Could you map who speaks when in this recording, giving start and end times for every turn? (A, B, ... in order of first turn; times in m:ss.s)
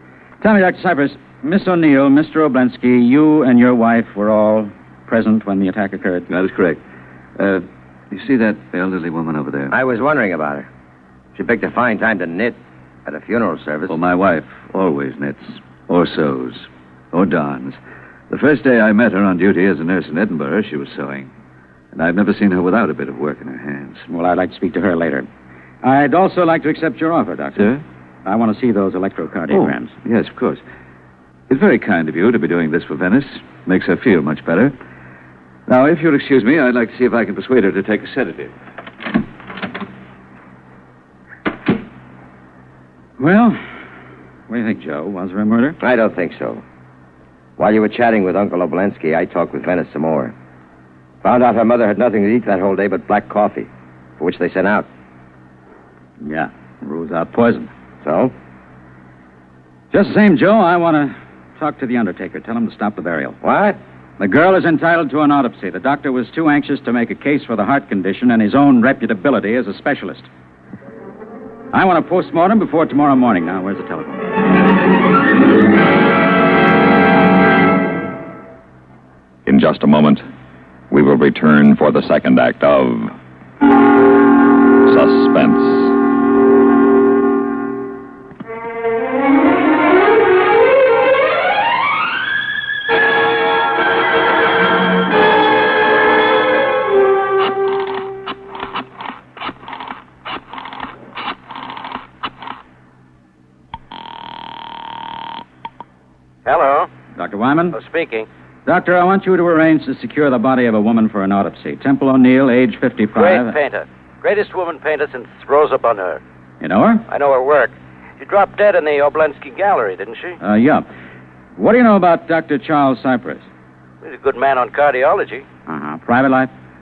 0:00.4-0:06.3 A
0:06.3-0:06.8 B
0:08.1-0:09.5 B
0:09.7-0:10.7 C
0:11.4-0:14.0 C
0:14.1-0:15.2 B
0:15.9-0:16.6 B
0:17.1-0:17.7 B
0:18.3-0:21.2 B
0:21.9-0:24.0 B
0:24.1-0:25.2 A
0:25.8-0:27.7 A
0:28.2-0:29.9 A
0:29.5-0:30.6 B
0:31.5-0:34.7 B
0:35.7-0:38.5 B
0:43.2-0:43.6 A
0:44.5-0:45.8 A
0:45.8-0:46.6 C
0:47.6-0:50.3 C
0:51.2-0:54.9 C
0:56.2-0:57.7 A
0:58.0-0:58.3 C
0:59.9-1:03.4 A
1:03.4-1:03.8 C
1:04.2-1:10.3 A
1:11.7-1:14.3 A
1:19.4-1:20.2 D
1:20.9-1:23.1 D
1:24.9-1:25.9 D
1:46.4-1:46.9 E
1:47.1-1:47.8 A
1:47.7-1:48.3 E
1:48.6-1:53.6 A
1:53.2-1:56.2 E
1:53.2-1:53.5 B
1:56.6-1:57.0 A
1:57.1-2:00.4 E
2:00.4-2:00.8 A
2:01.6-2:03.5 A
2:04.0-2:05.4 E
2:05.6-2:06.5 A